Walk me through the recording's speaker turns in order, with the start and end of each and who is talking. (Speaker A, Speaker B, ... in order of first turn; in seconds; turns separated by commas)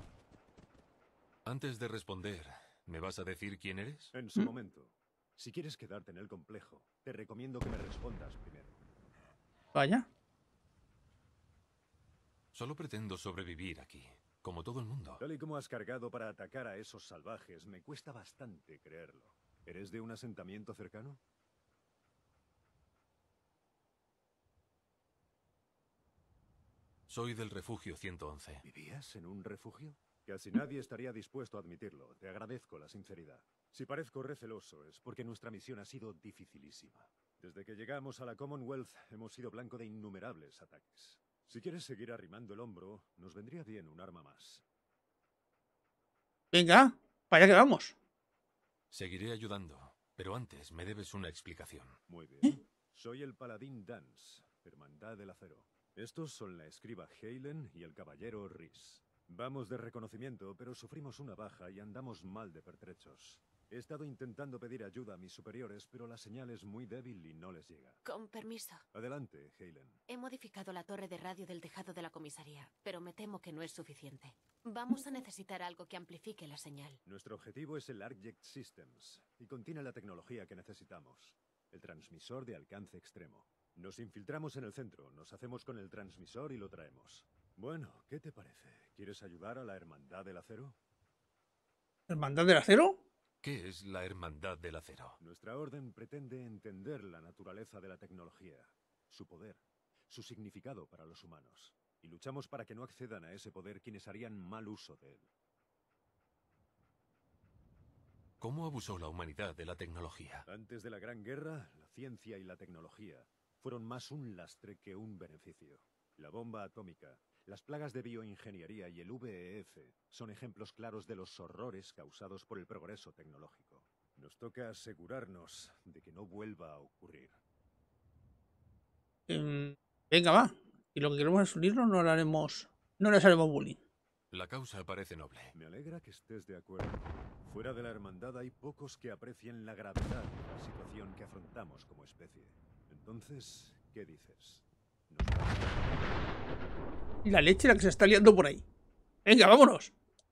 Speaker A: 1.4-4.1, Speaker B: 4.1-8.8, Speaker C: 9.7-10.1, Speaker A: 12.5-15.2, Speaker B: 15.2-21.2, Speaker A: 27.1-28.6, Speaker B: 28.6-44.6, Speaker C: 46.5-48.0, Speaker A: 48.9-51.9, Speaker B: 52.1-68.0, Speaker D: 68.0-68.8, Speaker B: 68.9-70.0, Speaker D: 70.1-77.0, Speaker B: 77.0-90.8, Speaker C: 92.1-93.0, Speaker A: 93.4-95.2, Speaker B: 95.2-105.3, Speaker A: 108.4-110.4, Speaker B: 110.5-127.4, Speaker C: 129.3-133.8, Speaker A: 134.3-135.5, Speaker B: 135.5-146.0, Speaker C: 147.2-148.6, Speaker C: 149.2-149.9